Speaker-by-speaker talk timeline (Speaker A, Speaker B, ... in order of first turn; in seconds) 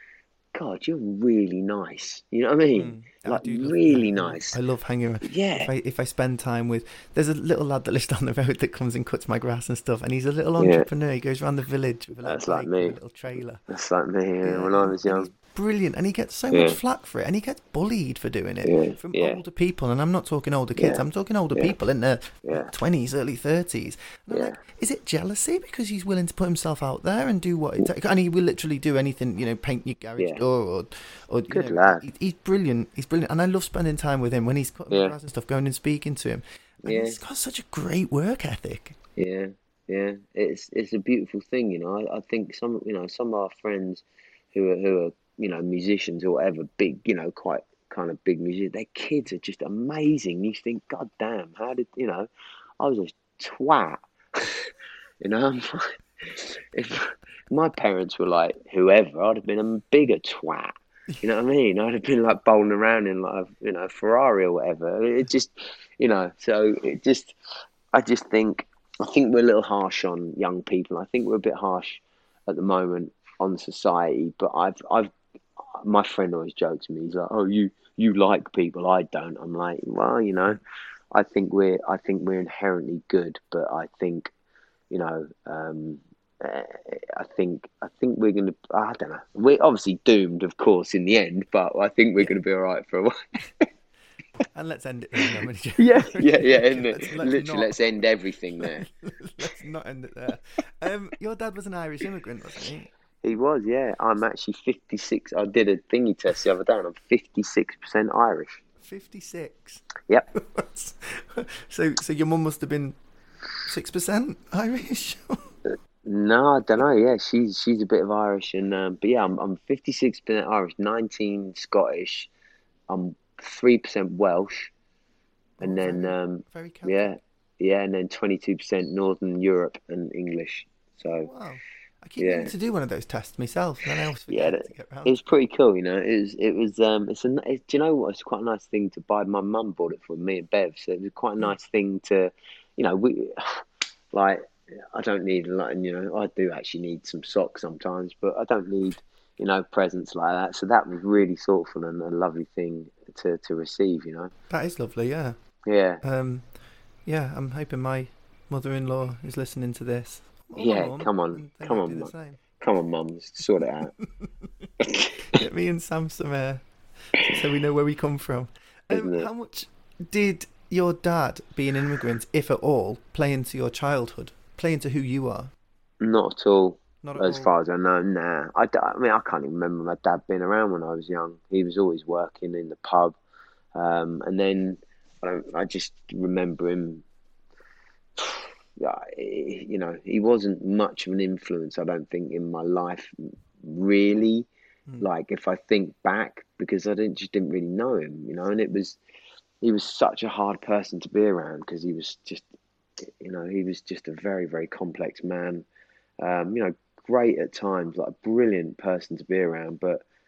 Speaker A: 0.5-4.6, 5.2-5.7, 10.6-10.9, 12.2-12.9, 13.7-15.3, 16.5-16.8, 18.6-19.4, 20.8-21.0, 22.4-22.7, 24.3-24.6, 31.5-32.0, 34.9-35.1, 36.9-37.2, 39.2-54.7, 55.2-67.3, 67.9-80.6, 81.1-84.3, 84.9-93.7, 95.8-98.8, 103.2-108.6, 116.0-122.3, 122.9-124.7, 125.6-131.3, 132.2-132.5, 134.3-154.3, 155.6-156.0, 160.6-163.9, 164.8-165.1, 168.9-169.3, 176.0-183.2, 183.7-187.0, 188.2-194.5, 195.0-199.0, 199.6-202.5, 203.0-205.7, 206.2-210.1
Speaker B: 2.8-13.6, 14.4-39.0, 94.4-97.8, 98.6-102.9, 108.8-113.0, 113.6-115.5, 125.6-127.2, 131.2-135.2, 154.5-155.4, 156.0-156.5, 157.1-162.4, 164.0-164.7, 165.3-175.5, 177.0-177.5